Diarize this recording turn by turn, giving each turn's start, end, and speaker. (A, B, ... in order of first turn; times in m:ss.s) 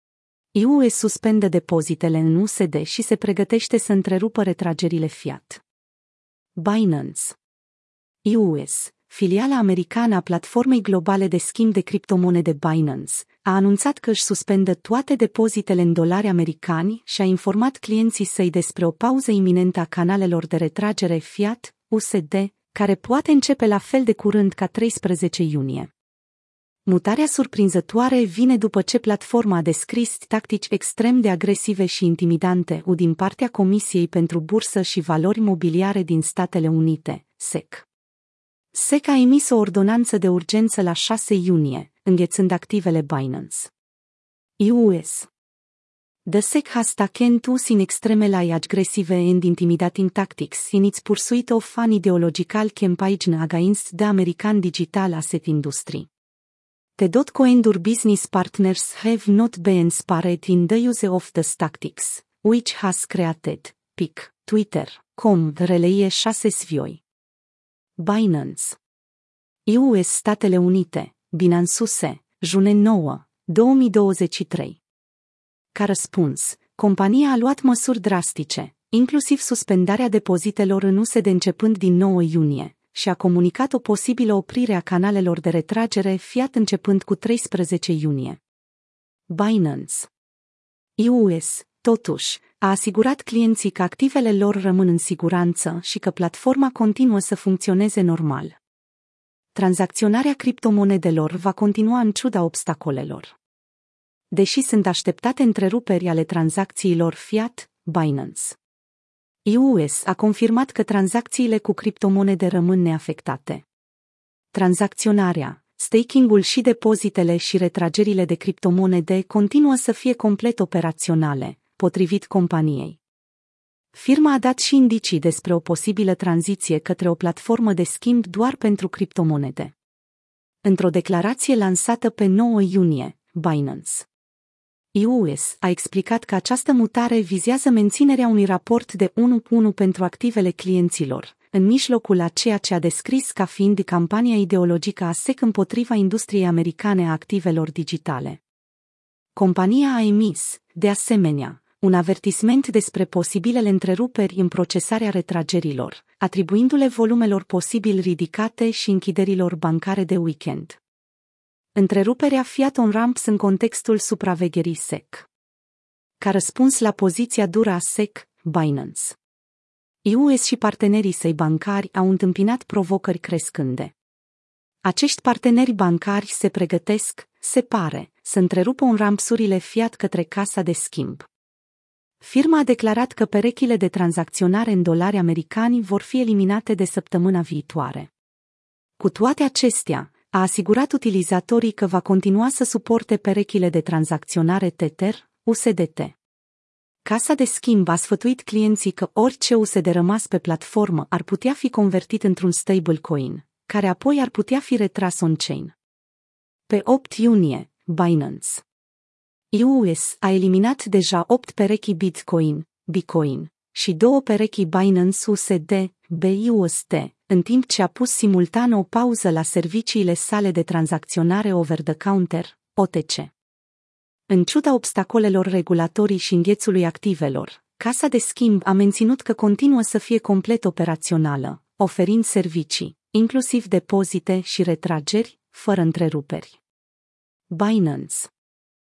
0:00.5-0:05.6 A
0:06.6-0:07.4 A
0:08.2-0:25.9 A
0:26.9-0:37.8 A
0:38.7-0:43.7 A
0:44.6-0:45.3 A
0:46.3-0:56.1 A
0:57.0-1:07.0 A
1:08.0-1:08.8 A
1:09.7-1:14.8 A
1:15.7-1:28.4 A
1:29.3-1:30.1 A
1:31.0-1:38.6 A
1:39.6-1:43.3 A
1:44.3-1:48.6 A
1:49.4-1:53.7 A
1:54.5-2:03.0 A
2:03.9-2:09.8 A
2:10.6-2:14.1 A
2:14.9-2:28.4 A
2:29.4-2:40.8 A
2:41.8-2:45.3 A
2:46.2-2:49.2 A
2:50.0-2:53.9 A
2:54.8-3:01.3 A
3:02.2-3:08.1 A
3:09.0-3:16.2 A
3:17.0-3:25.7 A
3:26.7-3:28.6 A
3:29.5-3:43.3 A
3:44.3-3:56.6 A
3:57.5-3:58.3 A